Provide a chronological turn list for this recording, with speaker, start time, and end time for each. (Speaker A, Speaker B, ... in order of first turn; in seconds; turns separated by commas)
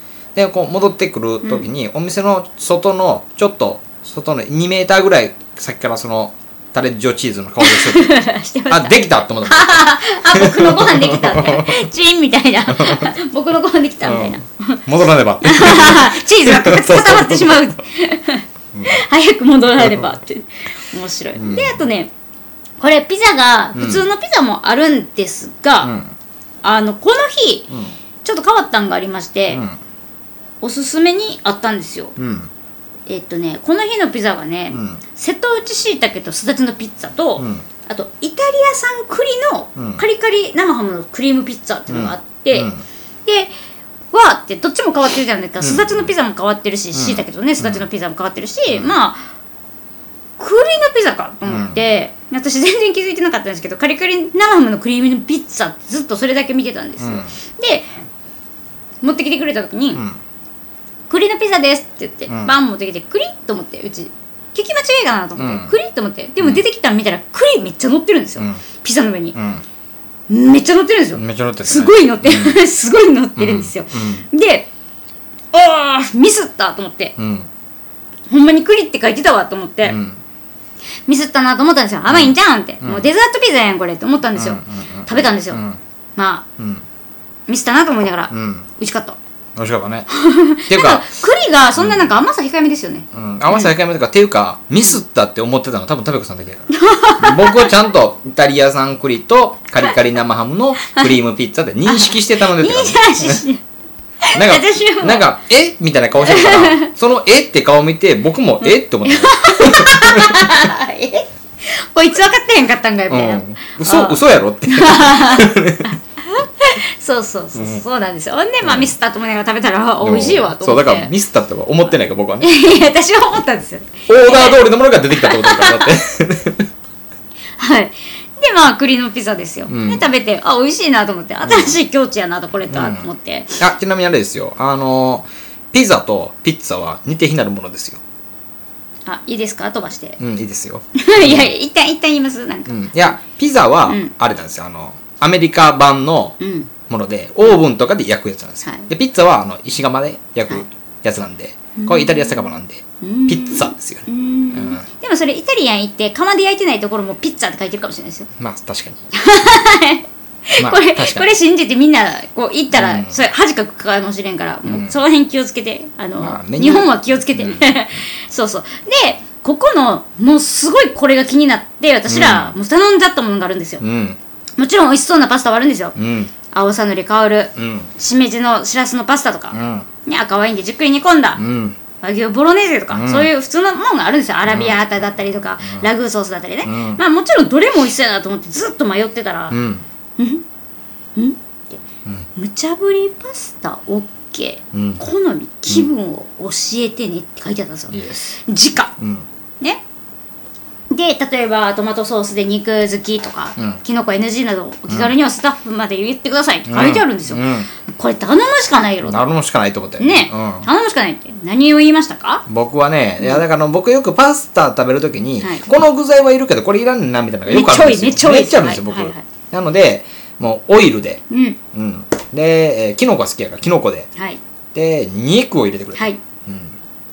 Speaker A: 0.3-8.2, Speaker B: 1.4-1.7, Speaker B: 7.6-14.8, Speaker A: 8.7-11.9, Speaker A: 12.7-13.1, Speaker A: 14.0-17.7, Speaker B: 15.4-22.1, Speaker A: 18.7-19.0, Speaker A: 19.8-20.1, Speaker A: 21.4-21.8, Speaker B: 22.8-25.9, Speaker A: 23.7-24.1, Speaker A: 25.8-26.1, Speaker B: 26.6-27.7, Speaker B: 28.2-29.6, Speaker A: 29.5-29.8, Speaker B: 30.6-32.1, Speaker A: 32.2-32.5, Speaker B: 33.1-42.7, Speaker A: 34.7-35.0, Speaker A: 37.4-37.6, Speaker A: 39.8-40.0, Speaker A: 41.9-42.8, Speaker B: 43.2-43.5, Speaker B: 44.1-49.3, Speaker A: 45.6-46.1, Speaker A: 46.9-47.8, Speaker A: 48.7-48.9, Speaker B: 50.4-57.9, Speaker A: 51.5-51.8, Speaker A: 57.0-57.3, Speaker B: 59.0-60.0, Speaker A: 59.9-60.2, Speaker B: 61.1-69.3, Speaker A: 62.3-62.5, Speaker A: 65.4-65.7, Speaker A: 69.3-69.6, Speaker B: 70.3-74.7, Speaker A: 71.2-72.6, Speaker A: 73.4-74.2, Speaker B: 75.5-77.1, Speaker A: 77.2-77.5, Speaker B: 78.3-80.0, Speaker A: 79.8-80.2, Speaker B: 81.1-85.6, Speaker A: 82.1-83.1, Speaker A: 84.3-85.8, Speaker B: 86.2-86.5, Speaker A: 86.6-86.8, Speaker B: 87.5-89.2, Speaker A: 88.3-88.7, Speaker A: 89.5-90.1, Speaker B: 90.1-93.7, Speaker A: 90.7-91.1, Speaker A: 91.7-92.1, Speaker A: 93.1-103.4, Speaker B: 96.7-97.7, Speaker B: 100.8-101.2, Speaker B: 101.8-103.6, Speaker B: 104.2-105.3, Speaker A: 104.3-110.7, Speaker B: 106.2-106.9, Speaker B: 108.6-121.1, Speaker A: 113.1-115.9, Speaker A: 117.5-117.8, Speaker A: 118.6-118.9, Speaker A: 120.0-122.5, Speaker B: 122.4-124.6, Speaker A: 124.1-126.7, Speaker B: 125.1-126.0, Speaker B: 127.6-133.6, Speaker A: 129.7-130.1, Speaker A: 131.4-131.8, Speaker A: 132.7-138.0, Speaker B: 139.1-140.2, Speaker A: 140.2-141.5, Speaker B: 140.9-142.8, Speaker A: 142.7-154.8, Speaker B: 146.4-146.7, Speaker B: 151.8-152.5, Speaker B: 153.0-158.3, Speaker A: 158.4-159.1, Speaker B: 159.1-173.8, Speaker A: 160.6-161.3, Speaker A: 162.7-163.2, Speaker A: 164.7-164.9, Speaker A: 166.2-167.8, Speaker A: 172.1-172.5, Speaker A: 173.8-174.2, Speaker B: 174.6-176.0, Speaker A: 175.9-176.3, Speaker B: 176.5-181.4, Speaker A: 177.6-177.9, Speaker A: 179.5-179.9, Speaker A: 181.4-181.8, Speaker B: 182.0-189.6, Speaker A: 182.9-183.3, Speaker A: 184.4-184.8, Speaker A: 186.6-187.0, Speaker A: 189.5-189.8, Speaker B: 190.2-190.4, Speaker B: 191.2-191.8, Speaker B: 192.3-198.9, Speaker A: 194.7-195.0, Speaker A: 197.9-198.2, Speaker A: 199.0-199.3, Speaker B: 200.9-209.2, Speaker A: 206.7-207.7, Speaker A: 209.0-210.7, Speaker B: 210.0-212.4, Speaker A: 212.5-224.1, Speaker B: 215.4-215.7, Speaker B: 217.5-219.2, Speaker B: 221.3-221.6, Speaker A: 224.7-226.8